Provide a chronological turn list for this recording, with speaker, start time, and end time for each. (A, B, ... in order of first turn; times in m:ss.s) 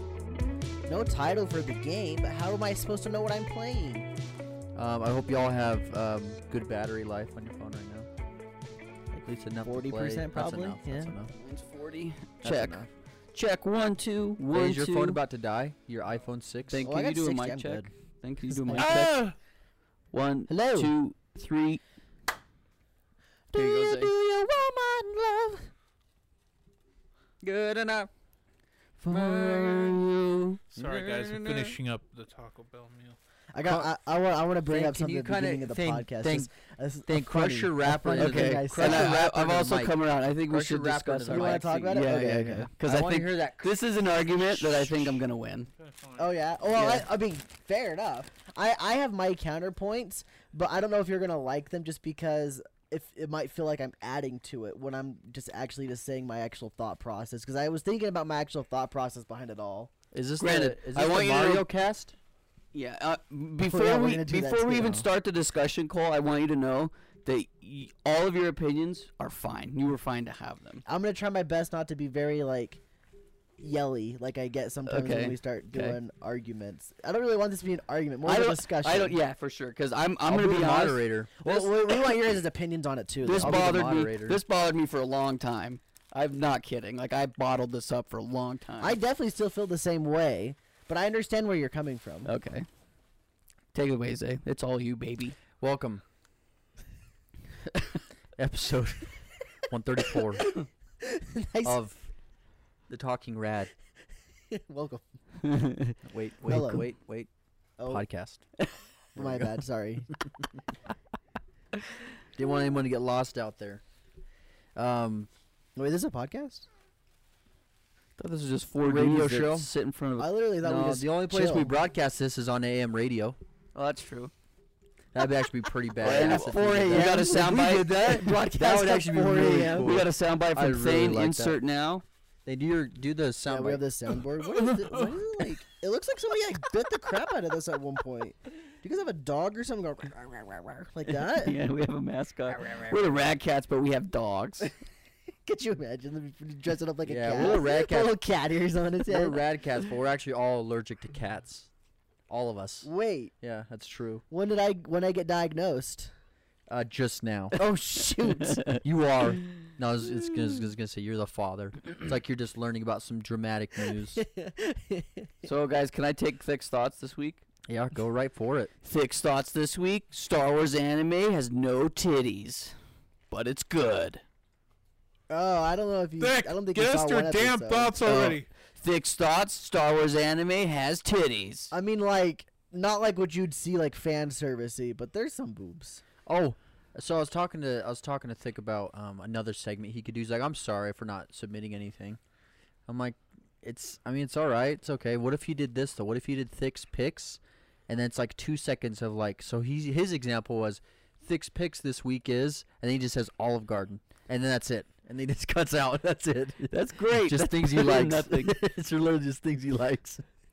0:00.8-0:04.1 A
0:04.7-0:08.1 B
0:09.1-0:11.1 A
0:09.2-0:11.3 B
0:11.3-0:12.8 C
0:12.4-0:12.9 B
0:13.3-0:15.2 C
0:14.5-0:16.9 B
0:16.7-0:19.2 C
0:16.8-0:17.9 A
0:18.5-0:19.2 A
0:18.8-0:19.3 D
0:20.1-0:21.8 C
0:20.5-0:20.9 A
0:23.5-0:25.7 A
0:23.5-0:24.1 C
0:27.4-0:28.1 B
0:29.0-0:30.0 C
0:29.1-0:30.1 B
0:30.7-0:31.7 C
0:30.7-0:33.2 D
0:33.5-0:39.2 A
0:34.6-0:36.5 B
0:37.0-0:39.9 B
0:38.2-0:45.7 C
0:40.5-0:41.7 B
0:41.3-0:42.7 A
0:42.8-0:43.7 B
0:45.8-0:46.2 D
0:46.2-0:59.9 A
0:46.7-0:47.0 C
1:00.1-1:02.1 B
1:00.4-1:01.6 C
1:02.7-1:10.8 C
1:03.6-1:05.1 A
1:10.8-1:12.8 A
1:13.6-1:19.2 A
1:14.9-1:16.0 C
1:18.2-1:22.1 C
1:20.2-1:21.3 B
1:21.4-1:23.7 A
1:23.2-1:29.0 C
1:23.3-1:24.4 B
1:28.8-1:32.3 A
1:32.2-1:32.6 C
1:33.7-1:35.4 C
1:35.6-1:36.0 B
1:38.4-1:39.1 B
1:39.7-1:40.5 B
1:40.4-1:41.8 A
1:41.6-1:42.1 B
1:42.9-1:43.7 B
1:44.5-1:45.0 A
1:45.5-1:45.9 C
1:46.0-1:47.3 B
1:46.5-1:46.8 A
1:47.8-1:48.0 A
1:47.9-1:48.4 B
1:49.1-1:49.6 B
1:49.2-1:50.1 A
1:52.4-1:53.8 B
1:54.8-1:55.3 B
1:55.8-1:56.6 A
1:58.2-2:00.3 C
1:58.8-1:59.7 B
2:00.2-2:01.7 A
2:00.6-2:03.4 B
2:03.8-2:04.3 C
2:05.1-2:11.6 B
2:06.0-2:08.8 C
2:06.0-2:07.7 A
2:08.3-2:10.0 A
2:09.8-2:12.0 C
2:12.4-2:13.8 B
2:13.5-2:21.6 A
2:21.3-2:24.7 C
2:22.5-2:23.3 B
2:25.4-2:29.4 A
2:27.0-2:28.2 B
2:29.0-2:31.7 B
2:32.3-2:32.9 B
2:32.8-2:33.3 A
2:33.4-2:34.2 B
2:34.3-2:36.1 A
2:36.7-2:37.6 B
2:37.5-2:38.8 A
2:38.8-2:44.2 B
2:44.1-2:45.3 A
2:45.4-2:47.4 C
2:47.7-2:48.7 B
2:48.8-2:52.7 C
2:53.3-2:54.2 C
2:55.3-2:58.4 A
2:56.2-2:58.5 D
2:58.8-3:01.7 C
3:01.7-3:06.0 A
3:06.2-3:12.2 B
3:12.9-3:30.2 B
3:26.7-3:28.6 C